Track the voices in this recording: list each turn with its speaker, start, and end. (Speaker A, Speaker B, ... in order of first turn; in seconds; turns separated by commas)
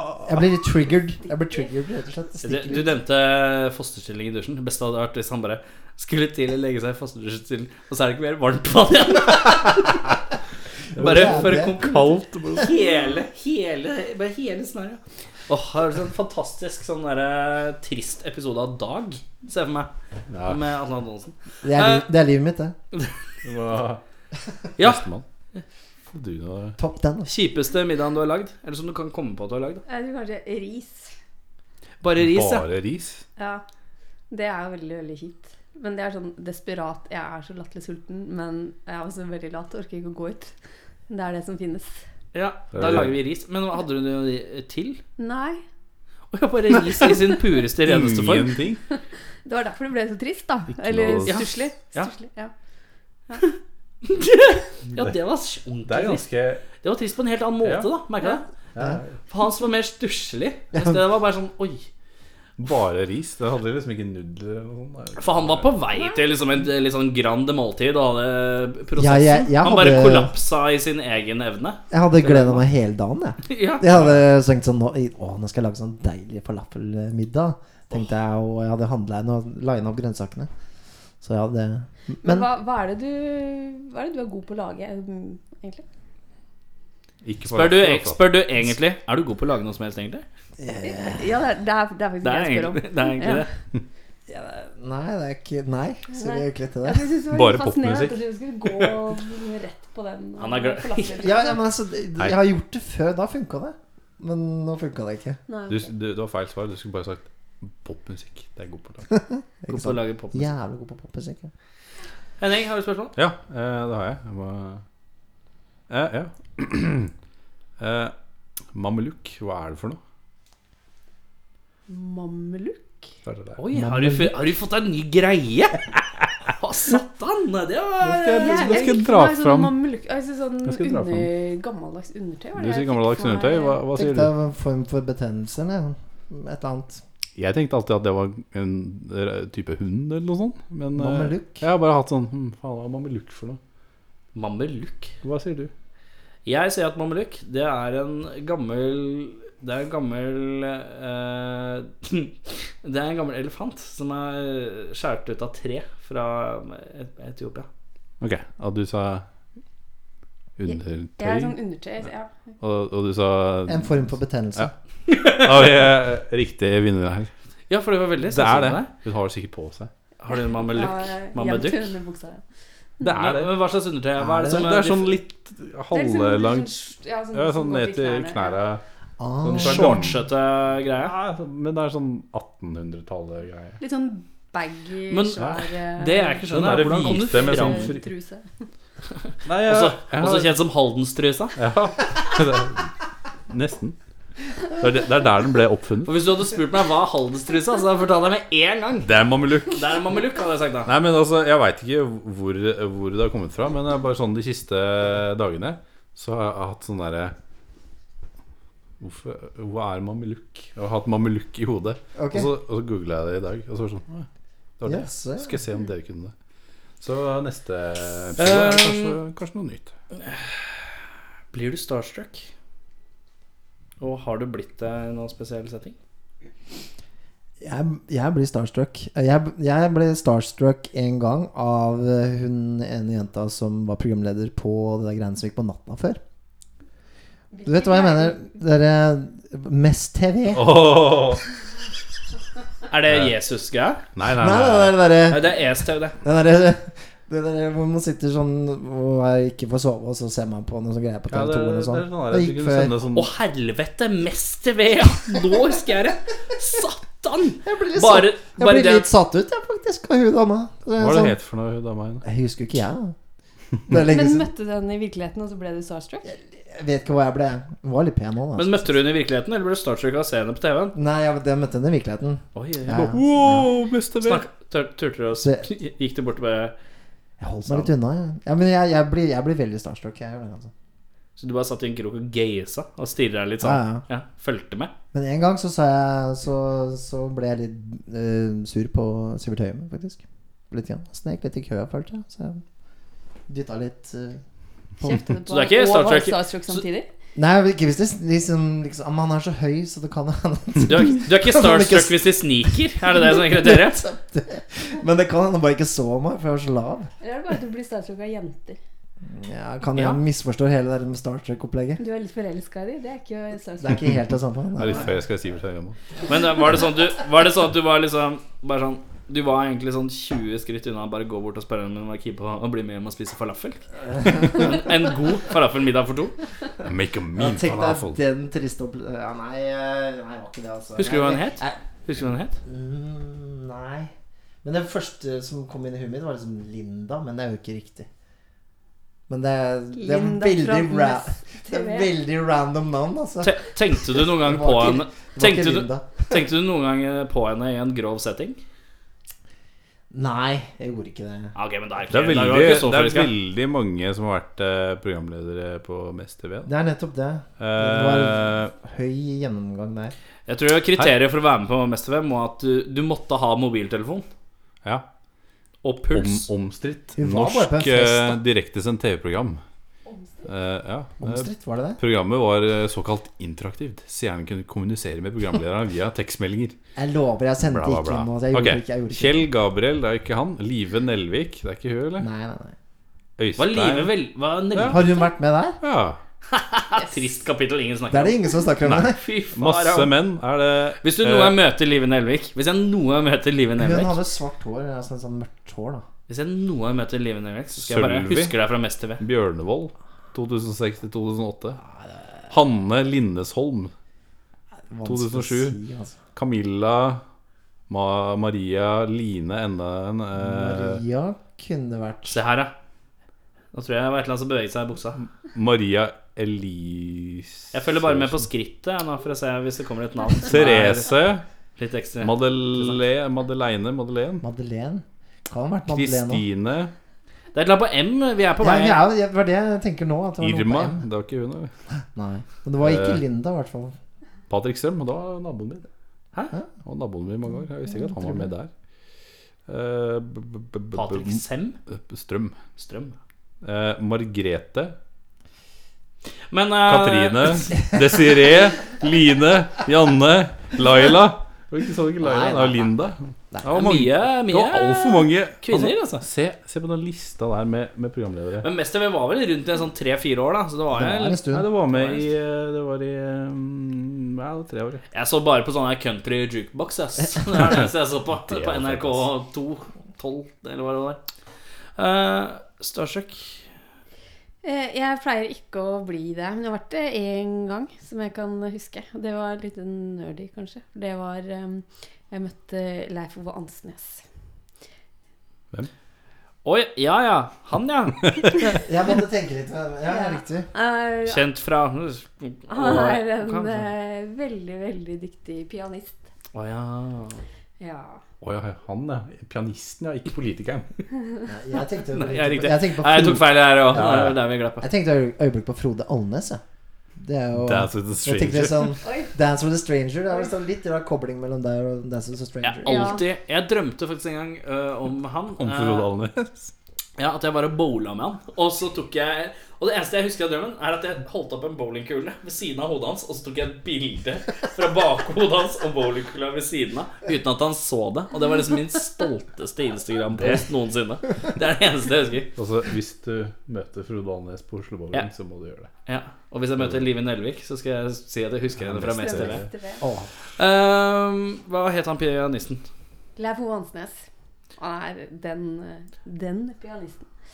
Speaker A: 0.2-3.0, Speaker B: 2.4-10.1, Speaker A: 11.0-11.8, Speaker C: 11.0-12.7, Speaker B: 11.0-19.9, Speaker C: 20.3-20.6, Speaker B: 20.5-22.1, Speaker A: 21.6-22.8, Speaker C: 23.4-24.0, Speaker B: 24.8-25.0, Speaker C: 24.8-25.2, Speaker C: 26.1-26.8, Speaker A: 26.8-27.3, Speaker B: 27.3-29.8, Speaker D: 29.9-31.1, Speaker B: 32.0-32.7, Speaker C: 32.2-33.2, Speaker D: 33.4-33.6, Speaker D: 34.3-40.5, Speaker D: 41.1-42.0, Speaker B: 42.3-45.0, Speaker C: 42.7-43.1, Speaker D: 45.2-45.6, Speaker B: 46.3-48.6, Speaker C: 47.8-48.8, Speaker D: 49.5-52.5, Speaker C: 50.8-51.4, Speaker B: 51.3-52.1, Speaker B: 54.0-56.2, Speaker C: 55.9-56.6, Speaker B: 56.8-58.5, Speaker C: 57.6-57.9, Speaker C: 58.8-59.2, Speaker B: 59.3-61.9, Speaker C: 62.6-65.8, Speaker B: 65.2-72.7, Speaker A: 69.0-70.3, Speaker A: 71.9-80.5, Speaker B: 73.5-74.1, Speaker A: 81.2-82.5, Speaker D: 82.2-85.8, Speaker C: 87.2-88.6, Speaker B: 87.5-90.2, Speaker A: 90.6-91.4, Speaker D: 90.8-93.5, Speaker B: 92.2-93.5, Speaker A: 94.3-97.1, Speaker D: 96.1-101.6, Speaker C: 97.3-98.2, Speaker B: 100.4-101.4, Speaker A: 101.2-105.4, Speaker D: 105.5-105.9, Speaker C: 105.7-109.0, Speaker A: 109.1-111.5, Speaker B: 109.7-110.5, Speaker B: 112.4-113.1, Speaker C: 113.2-114.8, Speaker C: 115.9-117.1, Speaker C: 117.8-118.1, Speaker C: 118.7-120.0, Speaker D: 121.9-123.0, Speaker C: 123.3-123.6, Speaker B: 123.6-126.0, Speaker A: 123.7-124.4, Speaker B: 126.5-128.9, Speaker C: 128.0-129.8, Speaker D: 128.4-133.8, Speaker C: 130.6-131.3, Speaker C: 132.6-134.3, Speaker A: 133.9-137.0, Speaker C: 137.4-143.6, Speaker A: 141.0-141.7, Speaker B: 144.3-145.1, Speaker C: 145.2-145.7, Speaker B: 146.5-157.7, Speaker C: 158.2-159.2, Speaker C: 160.6-161.6, Speaker D: 160.7-162.3, Speaker C: 162.6-164.7, Speaker A: 163.7-164.7, Speaker B: 165.1-165.5, Speaker C: 165.4-167.3, Speaker B: 167.7-168.9, Speaker C: 168.3-169.9, Speaker B: 170.2-171.9, Speaker D: 170.3-172.4, Speaker C: 173.0-173.5, Speaker B: 173.2-175.2, Speaker A: 174.3-174.7, Speaker C: 174.4-176.8, Speaker D: 175.9-178.6, Speaker C: 177.3-178.8, Speaker A: 179.2-180.1, Speaker C: 179.4-180.1, Speaker B: 179.5-181.1, Speaker C: 181.0-183.8, Speaker D: 183.8-188.5, Speaker B: 185.1-188.0, Speaker C: 185.4-185.7, Speaker C: 186.5-188.0, Speaker C: 189.5-190.5, Speaker B: 189.6-191.6, Speaker C: 191.6-192.9, Speaker C: 193.5-194.0, Speaker C: 194.8-196.1, Speaker B: 196.1-199.1, Speaker C: 199.0-200.0, Speaker B: 199.7-200.9, Speaker C: 200.9-207.3, Speaker C: 209.0-214.3, Speaker A: 212.2-212.5, Speaker C: 214.8-216.3, Speaker A: 214.8-215.6, Speaker C: 217.0-219.9, Speaker B: 218.4-219.2, Speaker B: 220.2-220.5, Speaker B: 221.5-222.5, Speaker B: 224.0-226.0, Speaker A: 227.6-236.2, Speaker D: 237.5-238.5, Speaker A: 237.7-241.1, Speaker C: 240.5-241.4, Speaker B: 242.9-244.0, Speaker C: 244.2-245.0, Speaker A: 244.3-245.5, Speaker B: 245.3-246.2, Speaker A: 246.2-253.0, Speaker C: 251.3-253.3, Speaker B: 253.1-259.1, Speaker A: 257.6-261.4, Speaker C: 261.0-262.2, Speaker A: 262.2-263.1, Speaker A: 263.9-264.5, Speaker D: 263.9-266.3, Speaker A: 266.3-269.0, Speaker B: 268.6-270.9, Speaker A: 270.9-273.7, Speaker B: 272.6-273.2, Speaker C: 273.0-274.4, Speaker B: 274.2-276.8, Speaker A: 275.4-275.7, Speaker A: 277.4-280.7, Speaker B: 281.4-284.9, Speaker A: 283.6-284.1, Speaker A: 285.1-292.6, Speaker A: 293.5-294.4, Speaker D: 295.0-297.1, Speaker B: 295.5-296.8, Speaker A: 297.4-307.1, Speaker B: 300.8-304.0, Speaker D: 307.2-308.8, Speaker A: 309.3-312.0, Speaker B: 309.9-310.2, Speaker D: 312.0-314.1, Speaker A: 313.8-315.1, Speaker C: 314.8-316.0, Speaker B: 316.3-326.4, Speaker A: 324.2-324.8, Speaker C: 326.9-328.2, Speaker A: 327.4-331.8, Speaker B: 331.0-332.6, Speaker A: 332.6-334.1, Speaker A: 334.6-338.1, Speaker A: 339.3-343.6, Speaker D: 339.9-342.1, Speaker B: 343.4-348.6, Speaker A: 344.1-346.4, Speaker A: 350.1-351.5, Speaker B: 351.6-353.3, Speaker C: 352.1-356.7, Speaker A: 356.6-360.1, Speaker C: 357.6-358.7, Speaker B: 360.5-364.3, Speaker B: 365.8-366.5, Speaker C: 366.1-369.6, Speaker A: 367.2-368.4, Speaker D: 370.1-370.4, Speaker C: 370.5-376.8, Speaker A: 371.2-372.0, Speaker A: 377.0-379.5, Speaker C: 377.6-382.3, Speaker A: 382.2-382.8, Speaker C: 383.4-384.1, Speaker B: 383.6-385.2, Speaker C: 384.8-385.0, Speaker A: 384.9-385.8, Speaker C: 385.8-386.2, Speaker B: 386.5-390.1, Speaker A: 388.1-389.2, Speaker C: 388.9-391.6, Speaker B: 391.0-394.2, Speaker A: 393.8-396.1, Speaker B: 396.3-399.2, Speaker C: 397.8-398.6, Speaker C: 399.2-401.8, Speaker C: 402.5-403.9, Speaker A: 404.9-406.2, Speaker C: 405.1-405.8, Speaker C: 406.4-407.2, Speaker C: 407.9-411.0, Speaker A: 410.4-412.4, Speaker B: 412.3-412.7, Speaker B: 413.7-415.2, Speaker C: 415.2-418.4, Speaker B: 417.7-421.1, Speaker C: 420.4-421.4, Speaker B: 421.8-423.0, Speaker C: 422.2-424.4, Speaker A: 424.4-426.5, Speaker C: 425.9-426.9, Speaker B: 427.5-429.0, Speaker A: 428.6-431.0, Speaker C: 430.4-431.7, Speaker A: 432.1-433.9, Speaker C: 432.8-433.2, Speaker C: 434.5-435.9, Speaker C: 436.9-438.7, Speaker A: 438.0-438.5, Speaker C: 439.7-442.6, Speaker B: 440.9-441.8, Speaker B: 442.8-443.2, Speaker C: 443.6-444.9, Speaker B: 446.5-447.8, Speaker C: 446.9-458.7, Speaker A: 452.2-452.9, Speaker A: 453.5-453.9, Speaker B: 453.6-456.3, Speaker B: 458.6-462.3, Speaker A: 460.9-461.7, Speaker C: 461.5-465.0, Speaker B: 465.1-471.2, Speaker C: 468.3-469.3, Speaker B: 472.0-473.6, Speaker D: 474.6-484.2, Speaker B: 486.6-488.6, Speaker A: 488.8-490.7, Speaker D: 490.1-491.5, Speaker B: 491.3-493.9, Speaker D: 492.7-496.2, Speaker B: 496.5-497.4, Speaker D: 497.8-498.2, Speaker C: 498.4-500.9, Speaker A: 501.5-504.2, Speaker B: 502.1-504.9, Speaker C: 503.9-504.4, Speaker A: 504.8-506.6, Speaker A: 507.2-513.1, Speaker C: 507.5-509.0, Speaker D: 509.0-509.3, Speaker B: 512.6-516.1, Speaker D: 512.9-513.2, Speaker C: 515.6-516.7, Speaker B: 517.2-532.5, Speaker C: 532.6-535.9, Speaker B: 536.1-539.6, Speaker C: 536.8-537.1, Speaker C: 538.8-539.7, Speaker D: 539.2-540.0, Speaker A: 540.0-540.3, Speaker B: 540.5-542.9, Speaker D: 543.4-544.2, Speaker D: 544.8-547.3